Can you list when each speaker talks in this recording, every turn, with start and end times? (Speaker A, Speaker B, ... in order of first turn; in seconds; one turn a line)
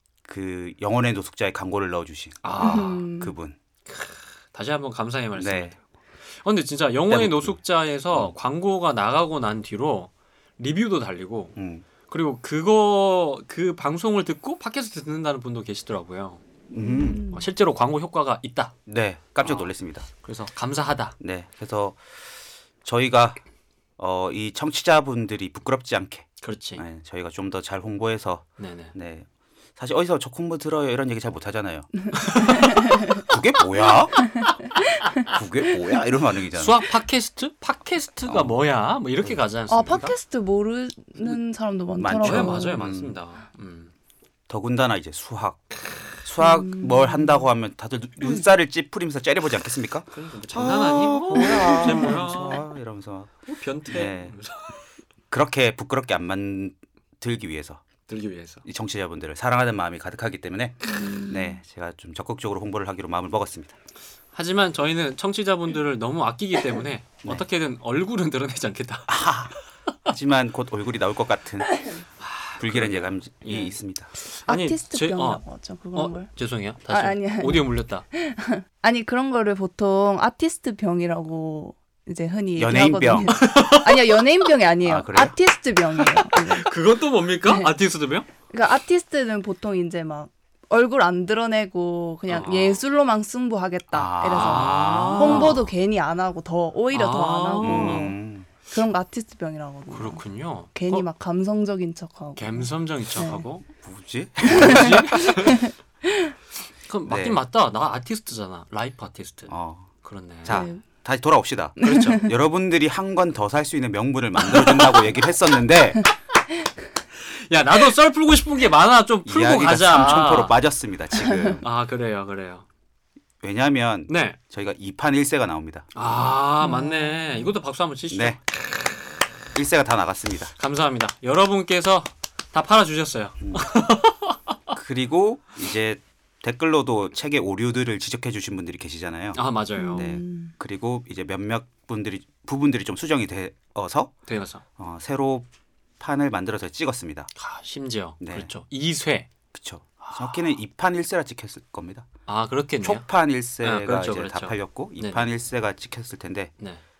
Speaker A: 0.3-3.6
Speaker B: 2.4-3.1
Speaker C: 2.6-3.3
Speaker B: 3.9-5.8
Speaker A: 5.4-5.7
Speaker B: 6.4-11.6
Speaker A: 7.1-7.6
Speaker A: 11.6-11.9
Speaker B: 12.1-16.4
Speaker A: 16.7-17.3
Speaker C: 16.8-17.5
Speaker B: 17.2-18.8
Speaker A: 18.9-20.1
Speaker B: 19.4-21.1
Speaker A: 21.2-22.0
Speaker A: 22.8-23.4
Speaker A: 24.0-34.3
Speaker B: 26.4-26.8
Speaker B: 28.6-28.9
Speaker B: 32.3-32.7
Speaker C: 32.6-33.1
Speaker A: 35.2-36.8
Speaker B: 36.5-40.1
Speaker A: 38.3-38.5
Speaker C: 39.7-42.8
Speaker A: 42.0-43.1
Speaker B: 42.2-43.9
Speaker A: 44.5-45.7
Speaker A: 46.2-53.3
Speaker C: 46.4-47.4
Speaker B: 50.1-52.7
Speaker C: 51.4-52.0
Speaker B: 53.5-54.8
Speaker A: 53.9-54.3
Speaker A: 55.3-57.8
Speaker B: 58.1-58.6
Speaker A: 58.6-63.8
Speaker C: 60.9-61.6
Speaker B: 64.3-69.5
Speaker A: 69.1-69.5
Speaker A: 70.1-71.8
Speaker B: 72.2-75.4
Speaker A: 72.6-74.1
Speaker C: 74.5-76.3
Speaker B: 76.0-78.0
Speaker C: 76.9-86.7
Speaker A: 82.6-83.4
Speaker B: 83.3-84.2
Speaker A: 84.8-85.3
Speaker B: 86.0-88.3
Speaker C: 88.5-98.1
Speaker B: 92.3-92.8
Speaker A: 93.9-95.6
Speaker B: 94.3-95.7
Speaker B: 96.9-98.1
Speaker A: 97.6-98.5
Speaker C: 98.7-100.2
Speaker B: 99.9-101.1
Speaker C: 100.7-103.5
Speaker B: 102.4-103.7
Speaker A: 103.8-105.3
Speaker B: 104.5-105.6
Speaker C: 104.5-106.3
Speaker B: 106.9-110.7
Speaker A: 107.1-107.4
Speaker A: 109.5-109.9
Speaker A: 110.4-116.1
Speaker C: 110.5-110.8
Speaker C: 111.8-112.1
Speaker B: 111.8-112.2
Speaker B: 117.2-120.6
Speaker A: 119.3-121.7
Speaker B: 121.6-122.7
Speaker A: 123.4-125.9
Speaker B: 124.1-124.4
Speaker B: 126.0-129.0
Speaker C: 126.6-127.5
Speaker A: 128.1-128.4
Speaker A: 129.6-130.5
Speaker B: 130.6-134.4
Speaker A: 133.4-133.7
Speaker A: 134.7-139.4
Speaker B: 139.3-140.1
Speaker C: 139.8-140.5
Speaker A: 140.0-144.1
Speaker B: 144.3-144.6
Speaker A: 144.8-145.5
Speaker A: 146.0-147.3
Speaker B: 147.4-149.3
Speaker A: 148.2-148.5
Speaker A: 149.5-152.1
Speaker B: 150.0-150.6
Speaker B: 152.3-153.1
Speaker A: 152.8-156.5
Speaker B: 153.6-155.2